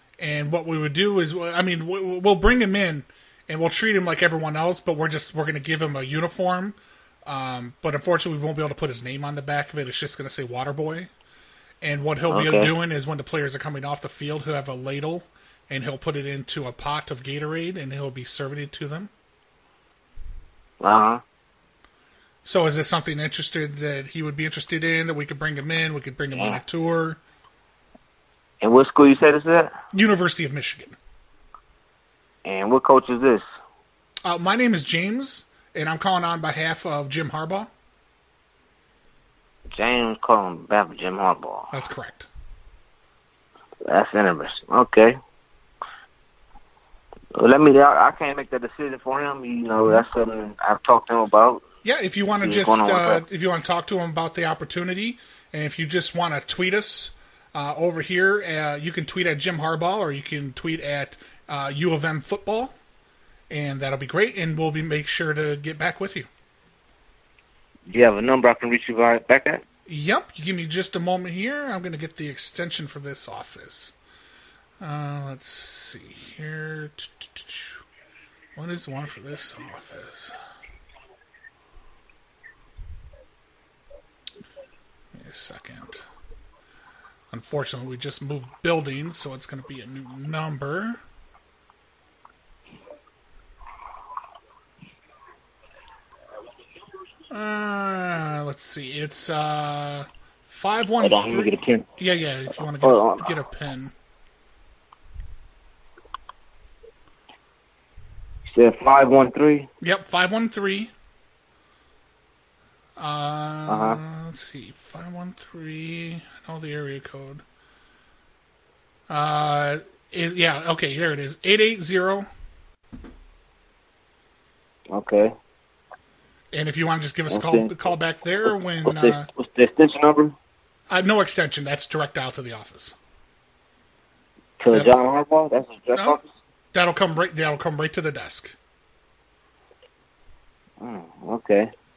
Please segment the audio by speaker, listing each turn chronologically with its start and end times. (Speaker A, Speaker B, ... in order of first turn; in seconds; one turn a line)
Speaker A: 0.2-11.1
Speaker A: 11.8-19.1
Speaker B: 12.3-12.7
Speaker B: 20.8-21.2
Speaker A: 22.4-27.2
Speaker B: 26.3-26.6
Speaker B: 28.6-29.7
Speaker A: 29.9-30.9
Speaker B: 32.4-33.4
Speaker A: 34.2-37.7
Speaker B: 39.7-41.7
Speaker A: 41.7-42.3
Speaker B: 43.9-45.2
Speaker B: 47.3-51.6
Speaker A: 51.8-62.7
Speaker B: 52.4-53.2
Speaker A: 63.5-66.3
Speaker B: 67.9-69.6
Speaker A: 69.9-73.9
Speaker A: 74.8-77.8
Speaker A: 78.5-80.3
Speaker A: 85.1-86.0
Speaker A: 87.3-91.0
Speaker A: 97.3-103.9
Speaker B: 101.0-101.8
Speaker B: 102.8-103.3
Speaker B: 108.5-109.7
Speaker A: 109.8-110.9
Speaker A: 113.0-117.4
Speaker B: 113.7-114.0
Speaker A: 119.1-122.3
Speaker B: 124.9-125.3
Speaker A: 126.5-129.3
Speaker B: 127.3-127.7
Speaker B: 128.8-130.3
Speaker A: 130.9-132.9
Speaker B: 134.6-136.2
Speaker A: 134.7-135.0
Speaker A: 136.7-138.5
Speaker B: 140.8-141.7